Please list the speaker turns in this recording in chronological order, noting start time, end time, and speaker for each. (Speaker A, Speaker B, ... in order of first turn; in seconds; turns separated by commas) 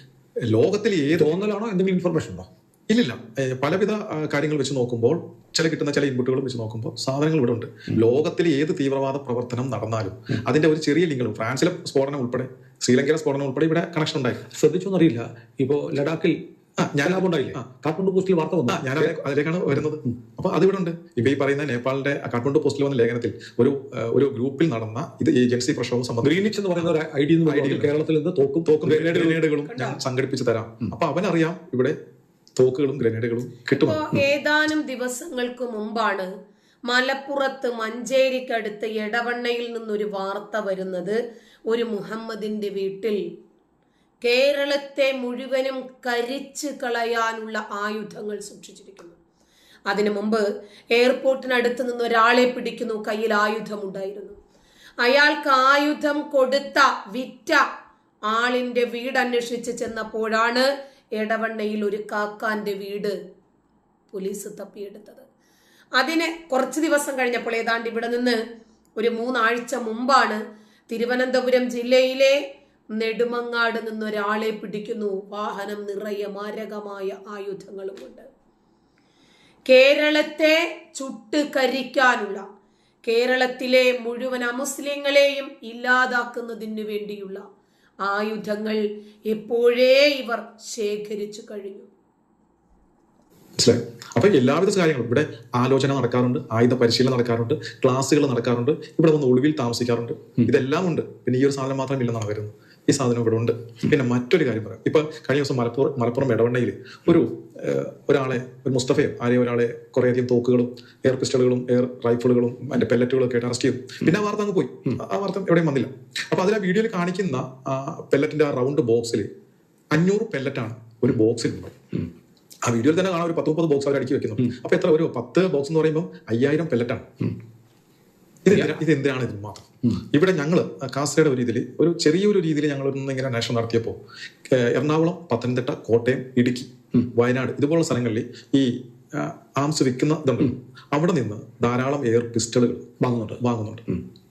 Speaker A: 0.4-1.4, Speaker B: 1.1-2.5, Speaker A: 2.9-14.4, Speaker B: 14.5-16.4, Speaker A: 16.8-17.6, Speaker B: 17.0-19.2, Speaker A: 18.7-26.9, Speaker B: 26.2-29.4, Speaker A: 27.4-28.0, Speaker A: 28.6-31.9, Speaker C: 29.7-30.0, Speaker A: 32.5-34.2, Speaker C: 33.7-36.3, Speaker C: 36.9-41.2, Speaker C: 41.7-43.2, Speaker C: 44.2-49.2, Speaker C: 49.9-54.4, Speaker C: 55.0-57.6, Speaker C: 58.3-63.1, Speaker C: 64.1-65.2, Speaker C: 66.0-68.4, Speaker C: 69.0-72.4, Speaker C: 72.9-78.2, Speaker C: 79.7-82.4, Speaker C: 83.0-87.4, Speaker C: 88.0-91.9, Speaker A: 93.6-119.3, Speaker A: 119.9-121.8, Speaker A: 122.6-127.3, Speaker A: 128.4-134.0, Speaker A: 134.5-142.8, Speaker B: 143.0-143.4, Speaker A: 143.4-143.8